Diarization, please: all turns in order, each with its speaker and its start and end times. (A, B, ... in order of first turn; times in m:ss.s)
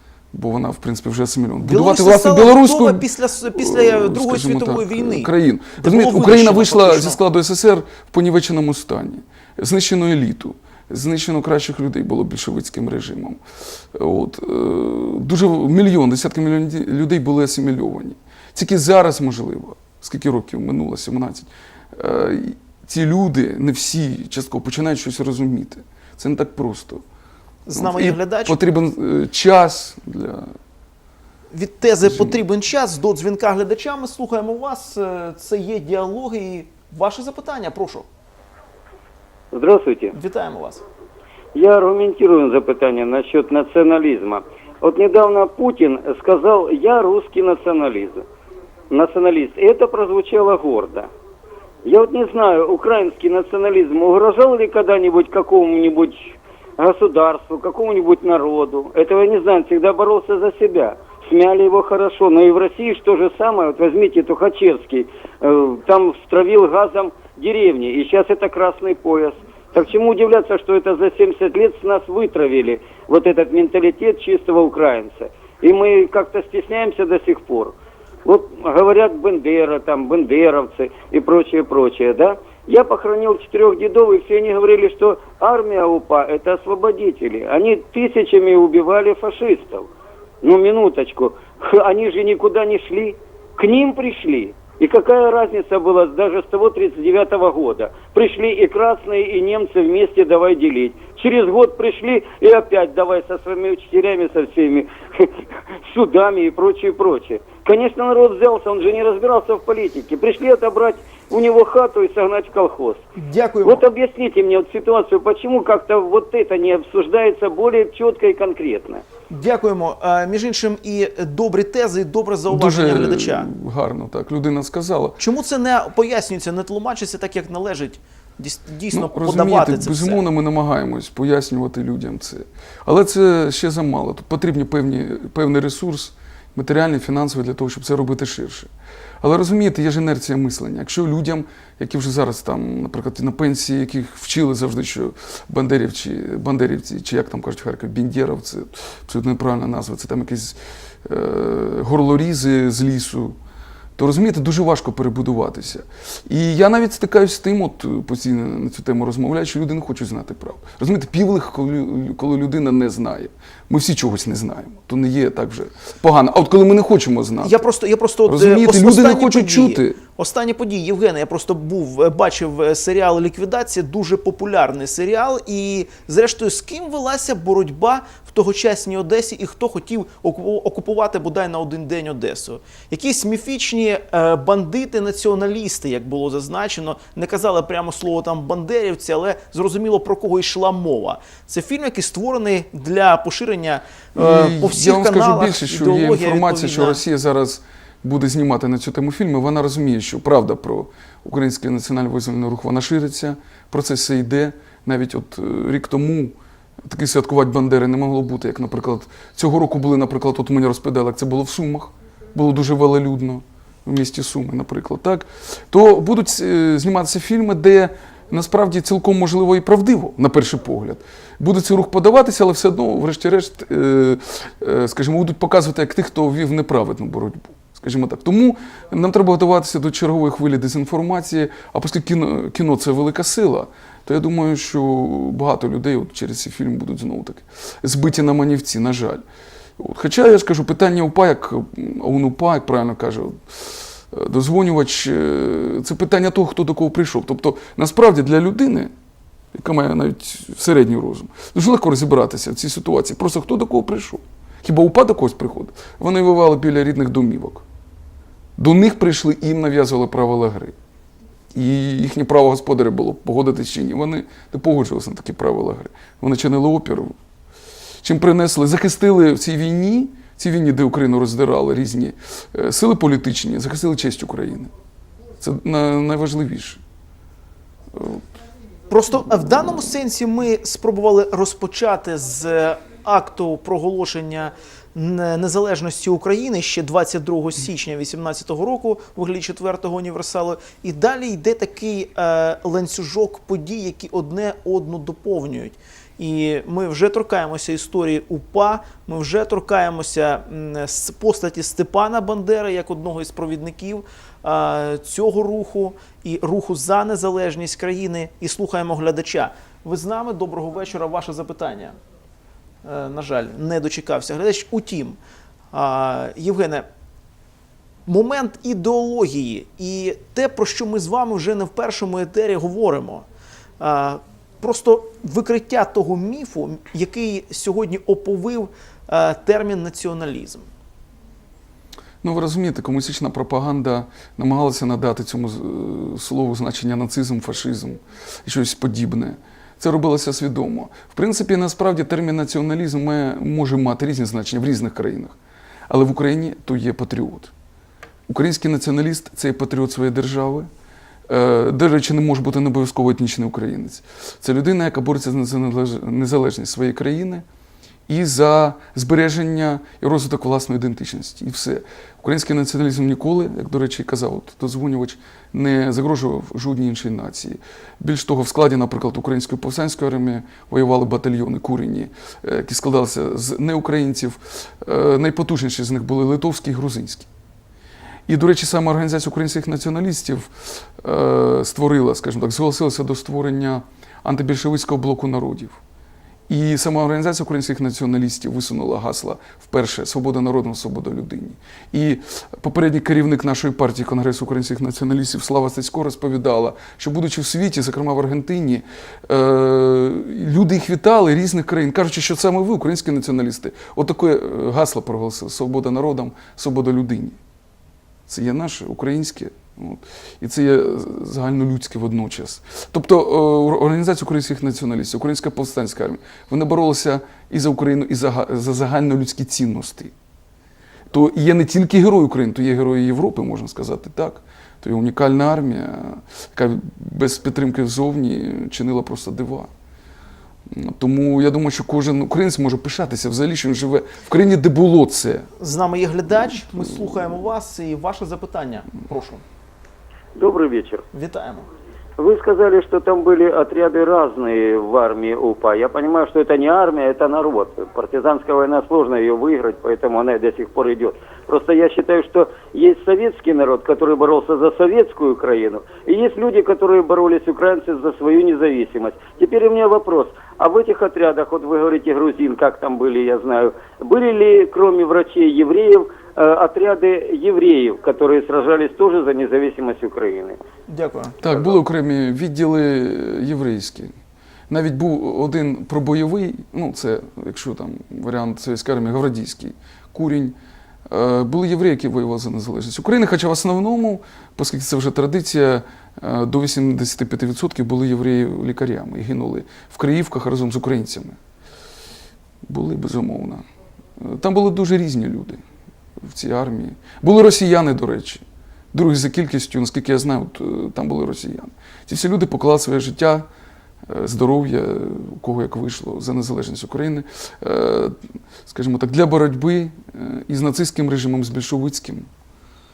0:00.3-0:13.4 A
0:01.6-0:07.2 B
0:13.9-0:27.0 A
0:27.6-0:28.6 B
0:27.7-0:30.5 A
0:31.5-0:38.1 B
0:32.0-0:32.4 A
0:39.5-0:40.1 C
0:40.1-0:40.8 B
0:41.5-0:48.2 C
0:48.9-0:51.1 C
0:51.8-1:17.7 C
1:18.2-1:29.9 C
1:30.4-1:53.0 C
1:53.2-1:53.8 B
1:53.6-1:59.0 C
1:59.3-2:03.5 B
2:02.5-2:05.2 A
2:05.2-2:10.2 B
2:08.9-2:18.7 A
2:19.2-2:33.4 A
2:34.0-2:47.7 A
2:47.4-3:17.0 B
2:48.3-2:50.0 A
3:14.1-3:26.3 A
3:26.9-3:59.2 A
3:59.8-4:08.9 A
4:09.5-4:17.6 A
4:18.6-4:20.8 A
4:21.5-4:27.2 A
4:28.0-4:34.7 A
4:35.4-4:36.8 A
4:37.9-4:38.2 A
4:38.9-5:12.0 B
5:12.8-5:15.2 B
5:15.7-5:16.8 B
5:18.0-5:23.2 B
5:23.8-5:30.7 B
5:32.2-5:45.3 A
5:45.9-5:47.5 A
5:48.3-5:50.7 A
5:51.3-5:57.4 A
5:58.1-6:17.3 A
6:18.3-6:25.8 A
6:26.5-6:47.4 A
6:48.3-7:00.1 A
7:01.1-7:09.7 A
7:10.7-7:15.5 A
7:15.6-7:19.4 B
7:20.4-7:21.0 C
7:21.1-7:21.7 B
7:22.2-7:50.6 C
7:50.9-7:51.4 B
7:51.4-7:54.1 A
7:54.7-8:00.5 A
8:01.1-8:11.4 A
8:12.6-8:13.6 A
8:14.2-8:15.6 A
8:16.2-8:23.4 A
8:24.1-8:32.3 A